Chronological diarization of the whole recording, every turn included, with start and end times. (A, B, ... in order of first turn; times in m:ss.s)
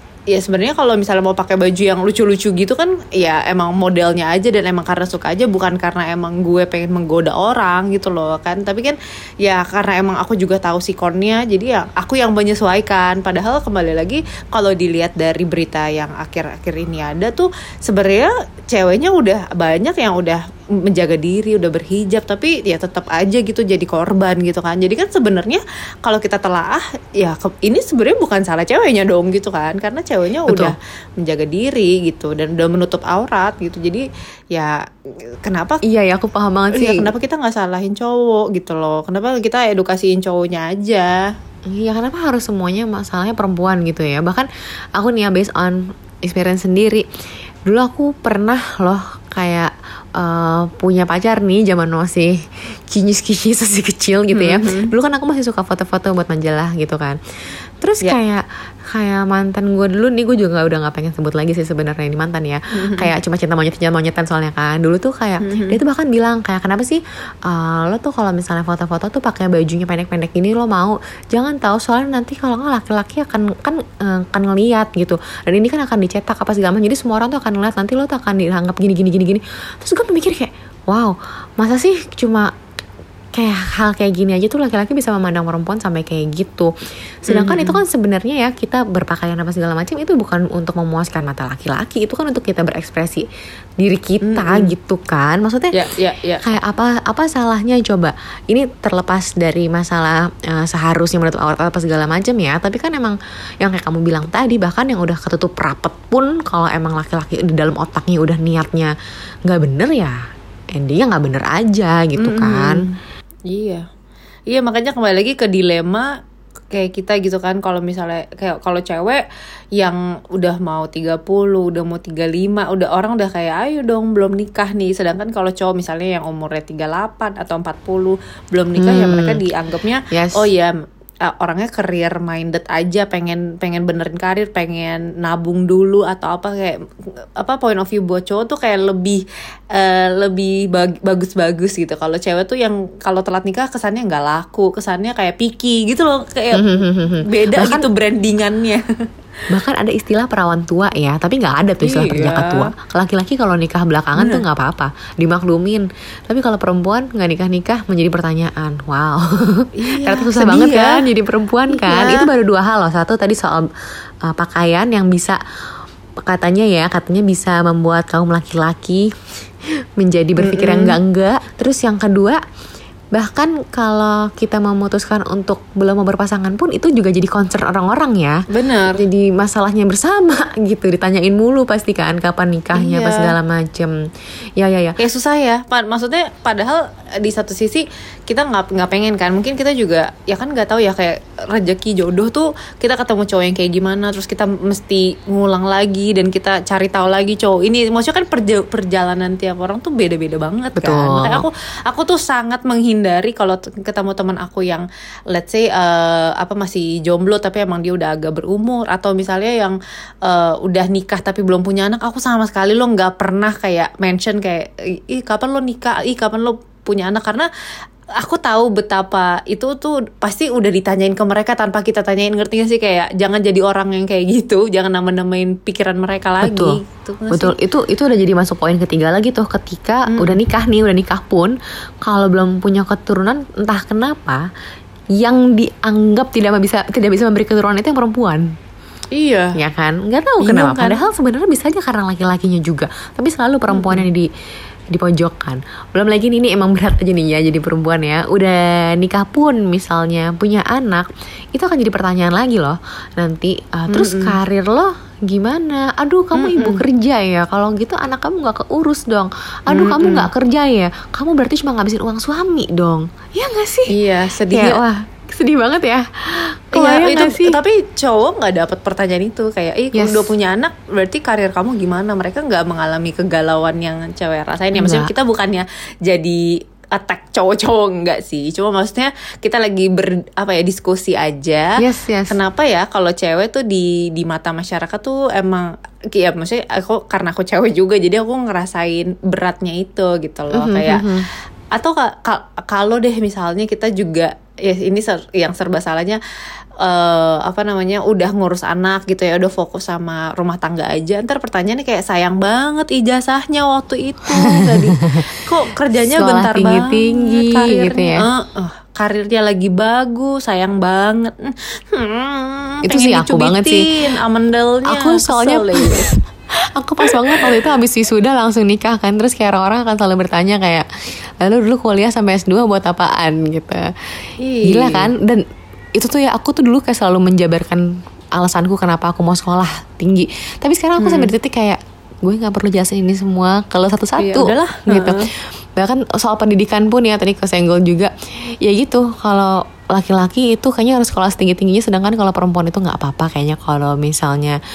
0:00.3-0:34.8 A
0:30.5-0:30.7 B
0:35.4-0:35.8 A
0:35.9-0:37.1 B
0:36.7-0:41.3 A
0:41.7-0:47.0 B
0:47.7-0:57.2 B
0:54.3-0:54.9 A
0:57.8-1:22.5 B
1:02.8-1:03.1 A
1:05.4-1:05.8 A
1:23.4-1:26.7 B
1:27.2-1:33.2 B
1:27.3-1:27.8 A
1:33.8-1:35.8 B
1:34.2-1:34.7 A
1:35.7-1:36.5 A
1:36.4-1:48.9 B
1:49.5-1:50.2 B
1:50.7-1:52.8 B
1:52.2-1:53.0 A
1:53.5-1:53.8 A
1:54.5-1:56.1 A
1:56.7-1:59.2 A
1:59.8-2:10.7 A
2:08.8-2:09.4 B
2:10.1-2:10.5 B
2:11.2-2:16.8 A
2:17.4-2:19.2 A
2:19.7-2:28.8 A
2:26.5-2:27.8 B
2:29.5-2:43.6 B
2:31.8-2:32.7 A
2:34.2-2:34.4 A
2:39.8-2:41.0 A
2:41.7-2:42.3 A
2:44.2-2:45.4 B
2:46.2-2:49.1 B
2:50.0-2:52.4 B
2:50.4-2:51.0 A
2:53.1-3:03.9 B
2:58.5-2:59.0 A
3:02.7-3:03.4 A
3:04.6-3:05.0 B
3:05.0-3:37.5 A
3:20.8-3:21.5 B
3:38.2-3:47.6 A
3:46.4-3:46.8 B
3:47.3-3:54.5 B
3:50.1-3:50.4 A
3:55.2-3:58.5 B
3:59.1-3:59.6 A
3:59.6-4:04.3 B
4:00.4-4:01.0 A
4:03.7-4:04.1 A
4:04.9-4:23.9 B
4:13.9-4:14.4 A
4:16.3-4:16.8 A
4:19.7-4:20.3 A
4:23.9-4:24.8 A
4:24.4-4:27.6 B
4:26.7-4:41.8 A
4:29.9-4:30.3 B
4:34.7-4:35.1 B
4:41.8-4:42.4 B
4:42.3-4:51.0 A
4:50.5-4:51.3 B
4:51.7-4:56.2 A
4:56.8-5:16.1 A
5:04.4-5:05.2 B
5:06.1-5:08.2 B
5:12.9-5:13.9 B
5:14.9-5:16.2 B
5:16.8-5:20.9 B
5:17.0-5:17.6 A
5:21.4-5:23.9 B
5:24.4-5:25.1 A
5:24.6-5:25.4 B
5:25.9-5:44.6 B
5:31.0-5:31.3 A
5:34.2-5:35.3 A